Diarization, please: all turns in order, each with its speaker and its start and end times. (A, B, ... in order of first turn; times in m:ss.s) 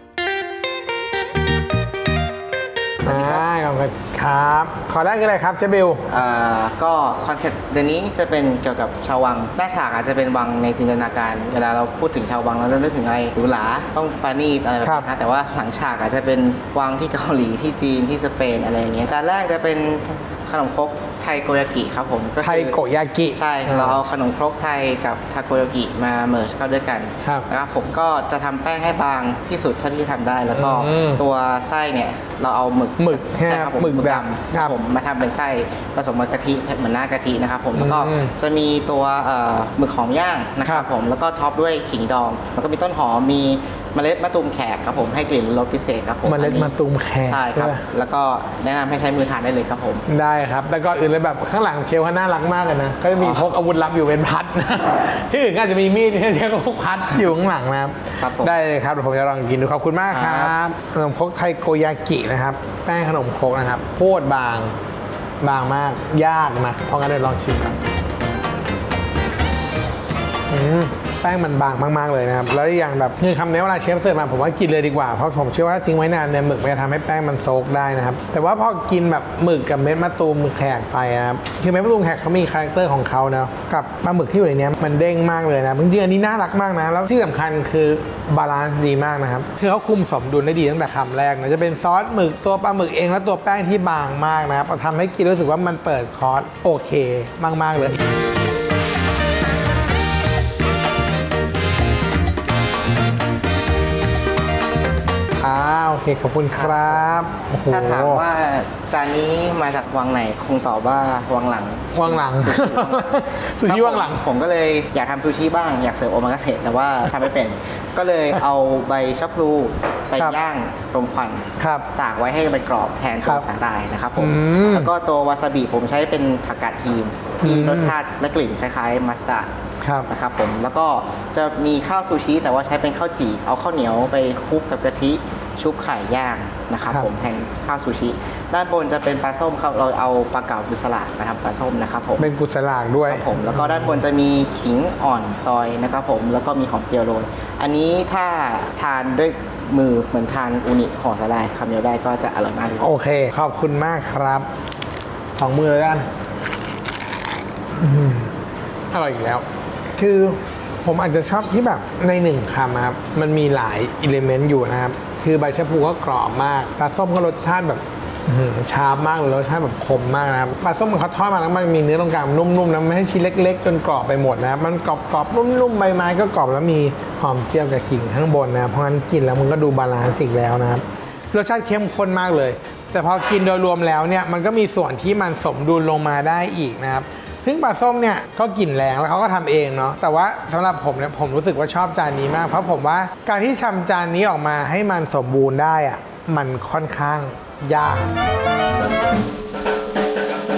0:03.0-0:03.4 A
0:03.0-0:06.0 B
0:06.1-0:22.8 A
0:14.8-0:15.1 B
0:22.4-0:24.0 B
0:23.3-0:50.0 A
0:30.5-0:31.2 B
0:33.0-0:34.8 B
0:37.8-0:38.3 B
0:46.2-0:47.8 B
0:50.1-1:04.8 B
0:53.2-0:53.5 A
0:58.2-0:58.6 A
1:00.1-1:00.6 A
1:05.4-1:07.8 B
1:10.5-1:38.0 B
1:45.4-1:48.2 B
1:46.6-1:47.1 A
1:47.7-2:09.5 A
1:51.9-1:54.2 B
2:01.6-2:01.9 B
2:04.2-2:04.9 B
2:07.4-2:07.9 B
2:09.8-2:10.1 B
2:10.1-2:22.3 A
2:22.2-2:24.0 B
2:23.0-2:32.9 A
2:32.8-2:34.5 B
2:35.4-2:36.1 B
2:37.8-2:38.3 B
2:38.9-2:39.4 B
2:40.0-3:18.1 B